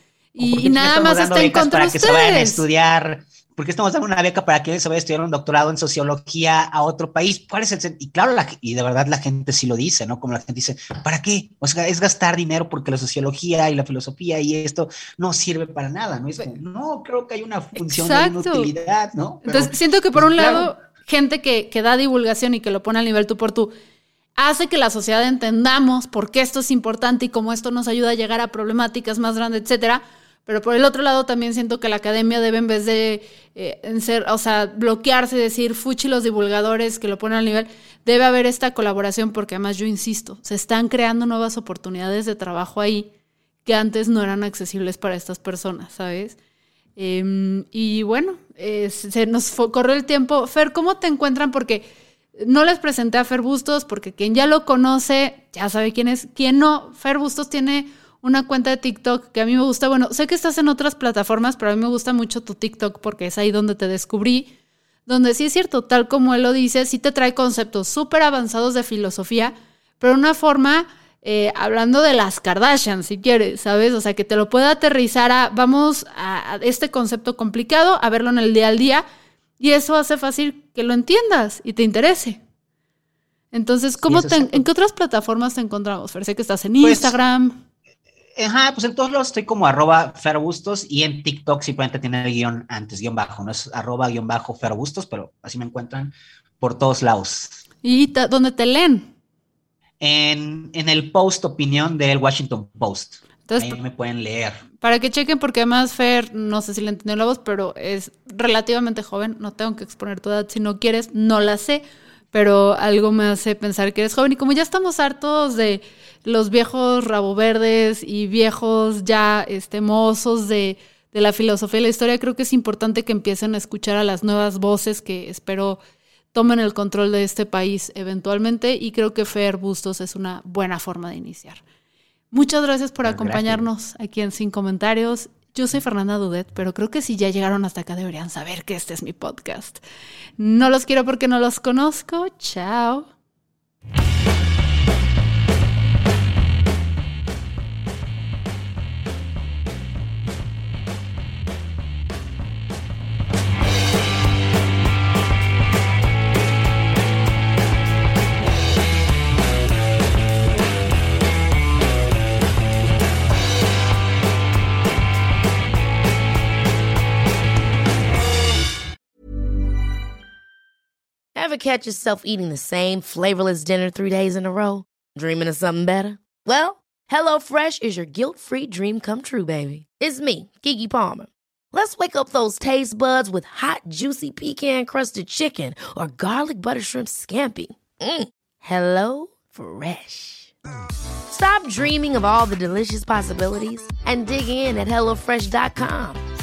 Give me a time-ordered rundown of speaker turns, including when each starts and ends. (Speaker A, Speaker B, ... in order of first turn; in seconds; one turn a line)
Speaker A: 0.3-2.6
Speaker B: 0.4-20.7
Speaker A: 17.9-18.7
Speaker A: 19.5-23.7
Speaker A: 24.4-43.1
Speaker A: 43.6-46.4
Speaker A: 47.0-64.5
Speaker A: 65.1-79.0
Speaker A: 79.6-82.4
Speaker A: 83.5-87.6
Speaker B: 84.1-84.7
Speaker B: 86.8-87.2
Speaker B: 88.4-97.6
Speaker A: 97.8-99.1
Speaker B: 100.0-104.6
Speaker A: 103.5-103.8
Speaker A: 104.8-125.8
Speaker A: 126.3-131.6
Speaker A: 132.3-139.8
Speaker B: 133.1-133.7
Speaker A: 140.4-143.1
Speaker C: 171.3-190.5
Speaker C: 191.3-196.2